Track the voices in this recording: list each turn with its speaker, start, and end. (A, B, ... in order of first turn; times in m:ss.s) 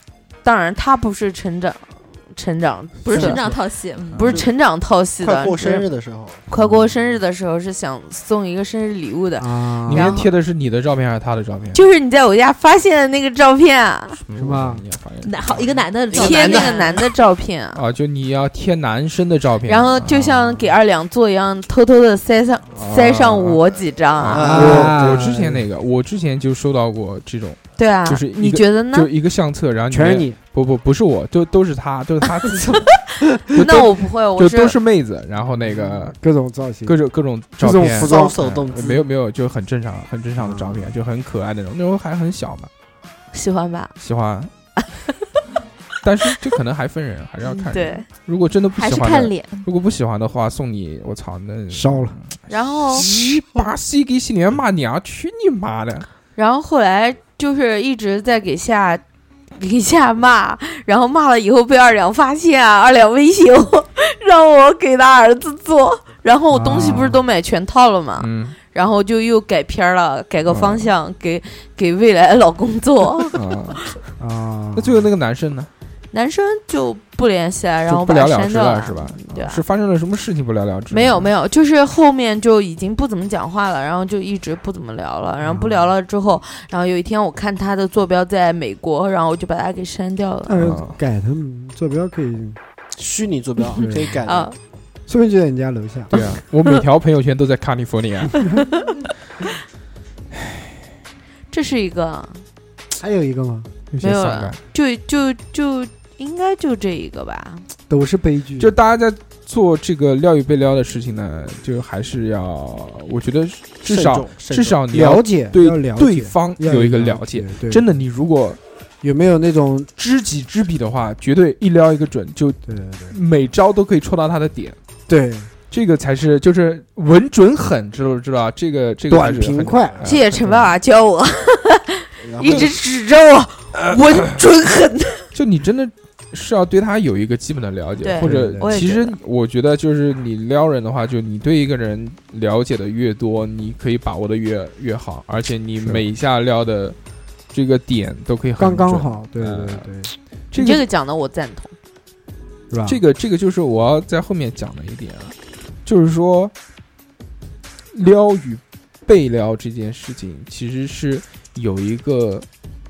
0:00.4-0:03.4 A
0:03.0-0:04.3 B
0:03.1-0:03.6 C
0:04.1-0:05.9 A
0:05.2-0:06.4 D
0:06.5-0:10.3 A
0:06.6-0:06.9 C
0:09.4-0:10.2 C
0:09.9-0:11.8 E
0:11.7-0:14.2 A
0:14.2-0:15.7 E
0:14.4-0:14.8 C
0:15.2-0:17.1 B
0:16.1-0:17.8 A
0:16.1-0:16.7 D
0:17.7-0:20.3 E
0:19.7-0:24.6 A
0:22.7-0:23.6 E
0:24.2-0:32.9 E
0:24.3-0:25.2 D
0:24.4-0:25.6 C
0:27.8-0:29.1 A
0:29.9-0:30.4 C
0:33.5-0:34.8 A
0:33.5-0:36.2 E
0:35.6-0:37.0 C
0:36.8-0:42.7 E
0:37.6-0:38.9 C
0:38.0-0:39.0 D
0:40.4-0:41.0 C
0:43.3-0:43.9 A
0:44.0-0:44.5 E
0:46.0-0:52.3 E
0:47.7-0:48.1 A
0:48.7-0:49.7 B
0:51.7-0:52.2 C
0:52.5-0:53.1 A
0:52.9-0:56.1 E
0:56.4-0:59.0 A
0:59.6-1:13.4 A
1:06.5-1:07.2 C
1:08.2-1:08.6 E
1:10.5-1:10.9 E
1:13.3-1:13.8 E
1:14.2-1:15.1 C
1:14.8-1:15.7 E
1:16.1-1:19.6 A
1:17.9-1:21.3 E
1:20.9-1:30.6 A
1:25.4-1:25.9 C
1:30.5-1:32.6 C
1:30.6-1:31.0 E
1:33.0-1:34.5 D
1:33.8-1:34.2 C
1:34.2-1:34.6 A
1:35.1-1:36.1 C
1:36.1-1:38.5 E
1:41.5-1:42.4 A
1:43.0-1:43.7 C
1:43.9-1:44.6 E
1:44.0-1:47.7 A
1:47.9-1:48.8 C
1:48.6-1:58.6 E
1:53.8-1:54.8 D
1:54.9-1:57.8 C
1:59.0-1:59.9 C
2:00.0-2:04.8 E
2:02.7-2:03.2 C
2:05.1-2:05.5 C
2:05.7-2:10.7 E
2:09.1-2:10.0 C
2:10.0-2:15.3 A
2:12.2-2:12.7 D
2:12.4-2:12.7 E
2:15.3-2:27.0 E
2:18.0-2:19.2 A
2:18.2-2:18.8 C
2:27.5-2:29.9 E
2:28.6-2:30.1 C
2:30.5-2:30.8 E
2:30.6-2:31.7 A
2:32.7-2:33.0 C
2:32.9-2:36.5 E
2:37.9-2:42.5 E